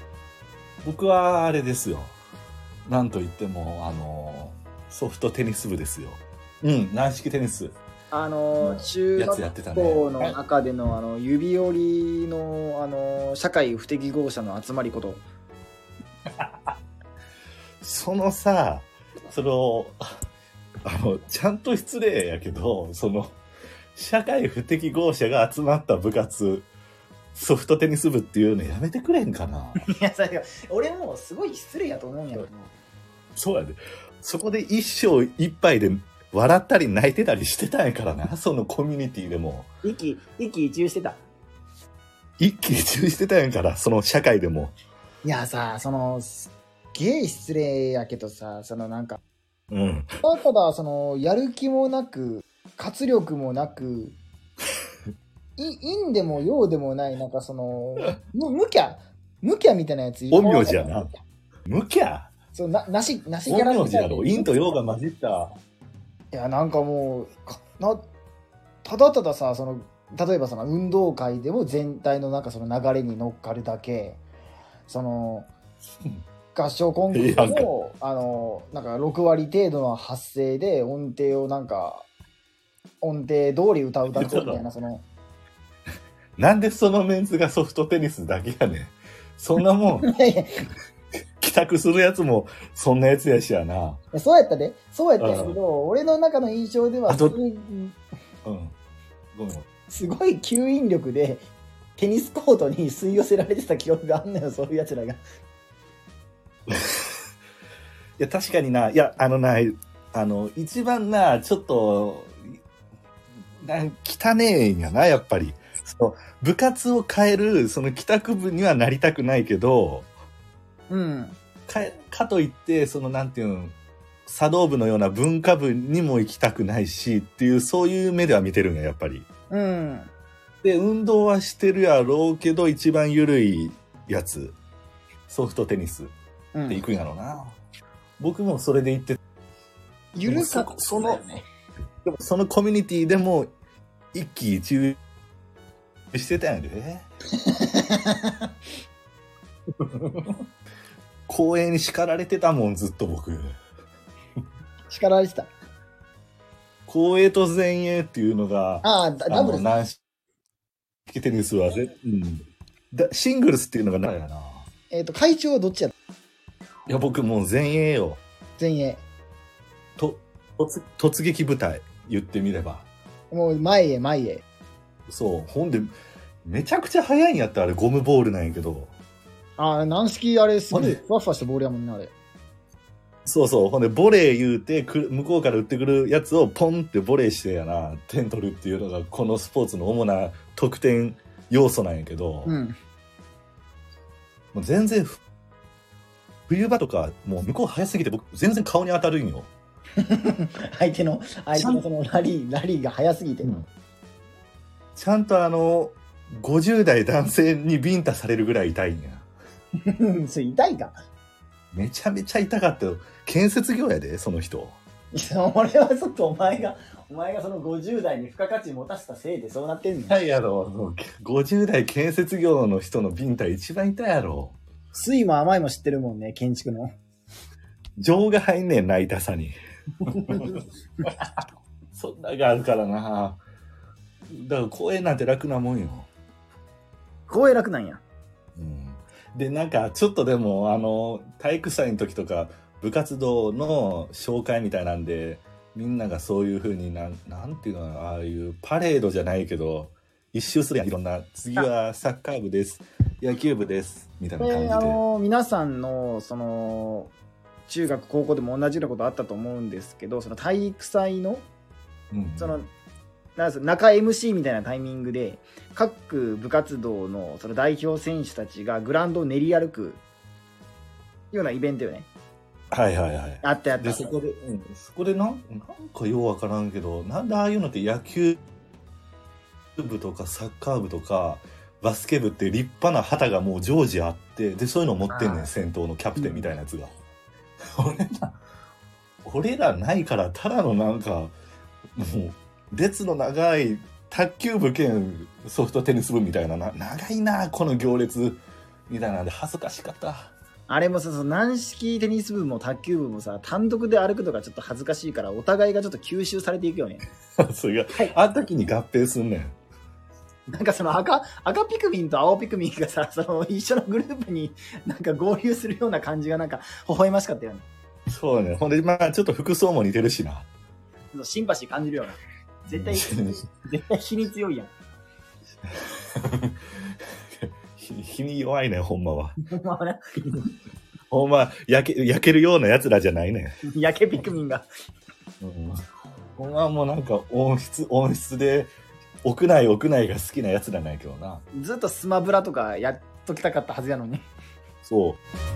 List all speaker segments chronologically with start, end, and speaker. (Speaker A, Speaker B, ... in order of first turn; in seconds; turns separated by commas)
Speaker A: 0.8-2.2, Speaker A: 2.9-7.8, Speaker B: 8.1-15.2, Speaker A: 8.6-10.4, Speaker A: 16.4-16.7, Speaker A: 17.8-20.0, Speaker A: 20.9-23.4, Speaker A: 23.9-26.7, Speaker A: 27.4-29.8, Speaker B: 29.8-32.7, Speaker A: 33.4-39.7, Speaker B: 39.8-41.2, Speaker A: 42.4-44.8, Speaker B: 45.2-49.2, Speaker A: 49.7-50.1, Speaker B: 50.2-54.2, Speaker B: 55.6-61.2, Speaker A: 60.3-61.1, Speaker A: 61.7-62.3, Speaker B: 62.5-64.6, Speaker A: 63.5-65.5, Speaker B: 66.3-68.1, Speaker B: 68.8-74.2, Speaker B: 74.9-75.5, Speaker B: 76.5-82.1, Speaker A: 77.1-77.7, Speaker B: 83.0-85.0, Speaker A: 84.1-84.7, Speaker A: 86.4-90.1, Speaker B: 90.0-90.7, Speaker A: 91.4-94.0, Speaker B: 94.1-98.0, Speaker A: 95.2-95.6, Speaker A: 97.1-97.4, Speaker A: 98.5-98.8, Speaker A: 99.3-99.7, Speaker B: 99.9-105.2, Speaker A: 106.7-107.1, Speaker A: 108.2-112.5, Speaker A: 113.6-120.1, Speaker B: 120.9-121.4, Speaker A: 121.7-129.3, Speaker B: 129.5-130.1, Speaker A: 130.6-134.6, Speaker A: 135.3-136.1, Speaker B: 136.5-136.9, Speaker A: 136.7-137.6, Speaker A: 138.2-139.2, Speaker B: 140.2-141.4, Speaker A: 140.3-141.2, Speaker A: 142.0-143.5, Speaker A: 144.1-145.0, Speaker A: 146.1-147.1, Speaker B: 147.4-148.5, Speaker A: 151.3-153.5, Speaker B: 154.9-155.5, Speaker A: 156.9-160.0, Speaker B: 158.8-159.7, Speaker A: 161.1-164.7, Speaker B: 164.9-165.9, Speaker A: 166.9-168.2, Speaker B: 168.6-169.1, Speaker A: 170.0-172.9, Speaker B: 173.3-174.4, Speaker A: 175.1-175.9, Speaker A: 176.4-178.9, Speaker B: 179.6-182.1, Speaker A: 180.7-181.0, Speaker A: 183.3-192.6, Speaker B: 192.5-192.8, Speaker A: 194.5-195.2, Speaker A: 196.5-199.5, Speaker B: 200.0-203.6, Speaker A: 201.6-201.8, Speaker A: 205.0-209.3, Speaker B: 209.9-211.0, Speaker A: 211.7-214.8, Speaker B: 215.1-220.3, Speaker A: 220.1-224.6, Speaker B: 224.9-226.9, Speaker A: 228.0-231.4, Speaker B: 230.3-230.6, Speaker A: 231.9-233.4, Speaker A: 234.3-236.1, Speaker B: 237.3-238.0, Speaker A: 238.6-255.0, Speaker B: 254.4-257.1, Speaker B: 257.7-261.5, Speaker A: 262.1-262.6, Speaker B: 262.4-262.7, Speaker B: 263.4-270.0, Speaker B: 271.3-272.1, Speaker A: 272.7-278.4, Speaker B: 273.4-274.1, Speaker A: 279.8-286.9, Speaker B: 285.1-285.5, Speaker B: 286.2-286.6, Speaker A: 287.8-288.4, Speaker A: 289.2-291.4, Speaker A: 292.0-300.3, Speaker B: 300.7-307.0, Speaker A: 307.4-309.6, Speaker B: 310.5-317.7, Speaker A: 318.1-320.5, Speaker B: 321.1-324.7, Speaker A: 322.7-323.4, Speaker A: 325.7-326.6, Speaker A: 327.4-329.4, Speaker B: 329.5-330.4, Speaker A: 331.1-333.6, Speaker B: 333.7-334.7, Speaker A: 335.4-335.8, Speaker A: 336.4-341.4, Speaker B: 341.6-344.3, Speaker A: 344.8-345.2